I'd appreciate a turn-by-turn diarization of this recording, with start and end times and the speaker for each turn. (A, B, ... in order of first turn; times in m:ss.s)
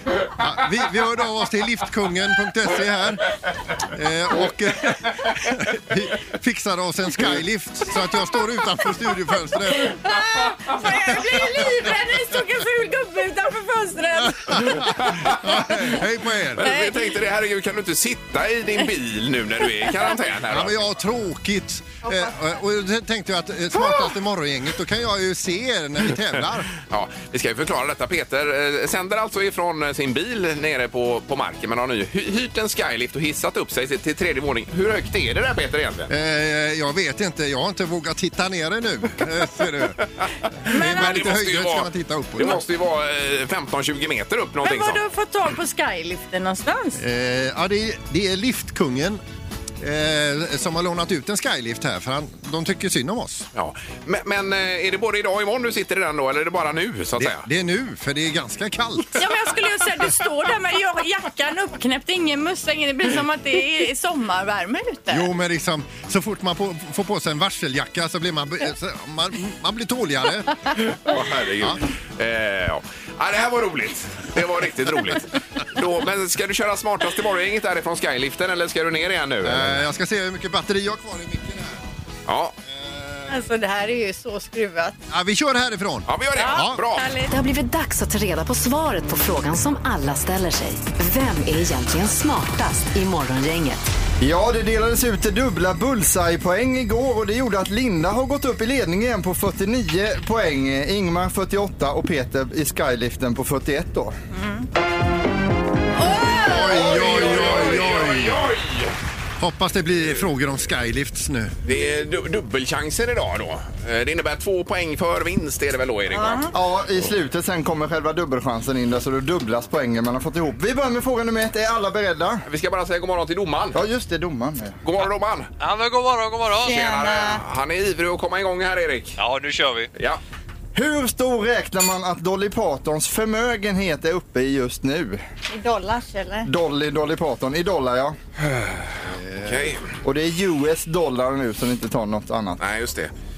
0:00.3-0:10.0 A
0:09.8-0:14.8 B
0:14.2-0:16.7 A
0:14.8-0:15.9 C
0:16.5-0:20.9 C
0:16.6-0:16.9 B
0:20.5-0:26.7 A
0:22.0-0:22.4 B
0:26.8-0:36.1 C
0:36.1-0:40.0 A
0:40.6-0:42.6 A
0:40.7-0:41.2 B
0:40.7-0:45.0 C
0:44.6-0:47.0 B
0:47.0-0:49.2 A
0:49.8-0:53.5 A
0:53.5-0:57.4 C
0:57.2-0:59.3 A
0:59.2-1:05.3 B
1:05.1-1:10.5 A
1:10.8-1:19.8 C
1:19.4-1:21.9 A
1:22.3-1:22.6 C
1:22.6-1:23.4 A
1:23.3-1:25.0 B
1:25.1-1:26.8 A
1:26.1-1:27.1 C
1:26.4-1:27.3 B
1:27.3-1:33.8 D
1:34.2-1:44.1 E
1:44.3-1:44.7 B
1:46.0-1:47.7 B
1:46.3-1:48.5 A
1:46.6-1:48.9 C
1:49.4-1:51.6 A
1:51.6-1:56.5 C
1:56.1-1:56.5 B
1:56.5-2:02.4 E
2:02.4-2:03.8 C
2:03.7-2:04.8 E
2:04.8-2:05.5 C
2:05.6-2:06.8 F
2:06.6-2:07.4 B
2:06.6-2:09.2 C
2:09.2-2:09.9 F
2:09.9-2:10.2 C
2:10.7-2:15.2 E
2:15.5-2:16.5 B
2:16.4-2:18.2 E
2:18.5-2:20.0 C
2:19.0-2:19.7 A
2:20.0-2:22.6 E
2:22.6-2:23.1 C